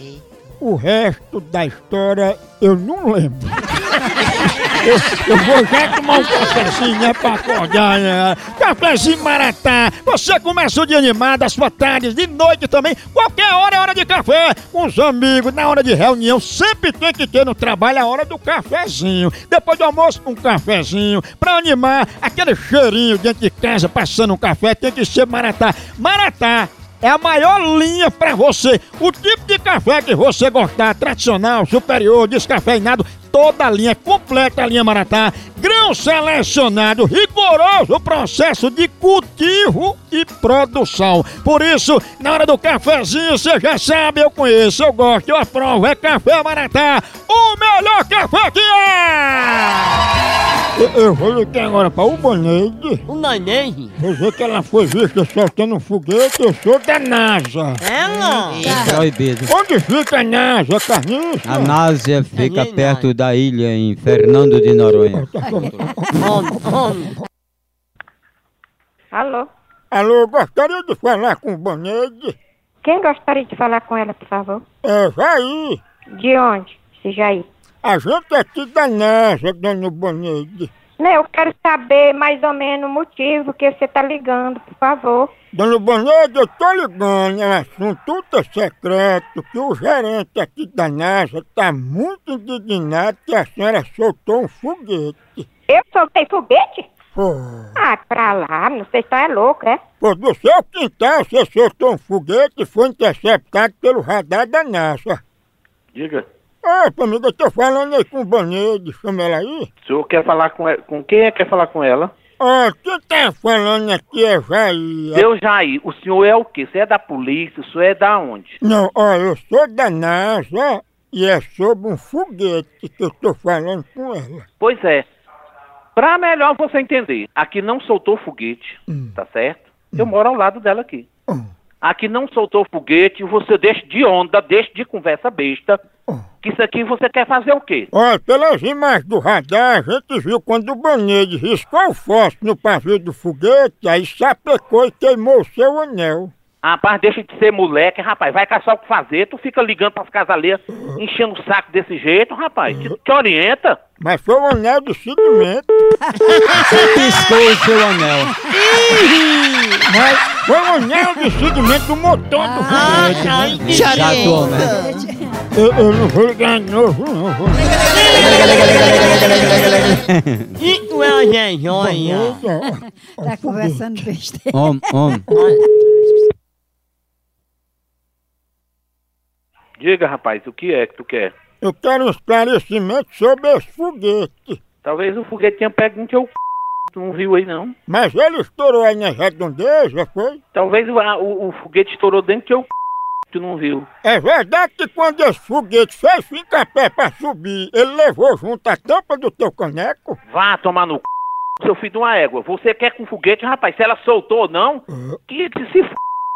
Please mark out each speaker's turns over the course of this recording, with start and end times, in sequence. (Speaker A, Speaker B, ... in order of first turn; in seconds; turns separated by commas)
Speaker A: 0.6-50.0, Speaker A: 50.8-53.0, Speaker B: 53.1-54.0, Speaker A: 54.0-58.5, Speaker B: 57.8-59.0, Speaker C: 58.6-59.0, Speaker D: 58.8-59.5, Speaker A: 59.5-61.8, Speaker D: 61.5-65.4, Speaker B: 62.3-63.1, Speaker A: 65.1-66.3, Speaker B: 66.2-67.1, Speaker E: 69.1-69.5, Speaker A: 69.9-72.4, Speaker E: 72.8-74.6, Speaker A: 74.8-75.8, Speaker E: 76.2-77.5, Speaker A: 77.8-80.7, Speaker E: 81.0-85.3, Speaker A: 85.5-95.5, Speaker E: 95.7-96.9, Speaker A: 97.2-97.8, Speaker E: 97.8-99.8, Speaker A: 100.0-105.2, Speaker F: 106.0-106.2, Speaker A: 106.6-109.7, Speaker F: 109.8-112.1, Speaker A: 112.4-115.3, Speaker F: 115.2-118.6, Speaker A: 118.6-124.5, Speaker F: 124.6-125.0, Speaker F: 126.0-131.1, Speaker F: 131.8-135.8, Speaker F: 136.4-137.9, Speaker A: 137.9-146.3, Speaker F: 146.6-153.8, Speaker A: 152.7-152.9, Speaker A: 154.0-155.7, Speaker B: 156.5-156.7, Speaker D: 156.5-158.3, Speaker B: 158.5-159.8, Speaker A: 159.8-164.1, Speaker C: 162.4-162.9, Speaker B: 162.7-164.9, Speaker D: 162.8-164.8, Speaker C: 163.7-165.4, Speaker A: 165.5-169.0, Speaker B: 168.4-169.7, Speaker D: 169.1-170.6, Speaker B: 170.6-172.4, Speaker A: 171.7-174.1, Speaker C: 173.2-175.2, Speaker D: 174.5-175.3, Speaker B: 175.3-175.6, Speaker F: 179.8-181.3, Speaker A: 181.6-184.6, Speaker F: 184.8-186.3, Speaker F: 186.9-187.7, Speaker A: 187.9-190.4, Speaker F: 190.5-192.7, Speaker F: 193.3-193.9, Speaker A: 194.0-200.2, Speaker F: 200.3-201.0, Speaker F: 201.6-205.9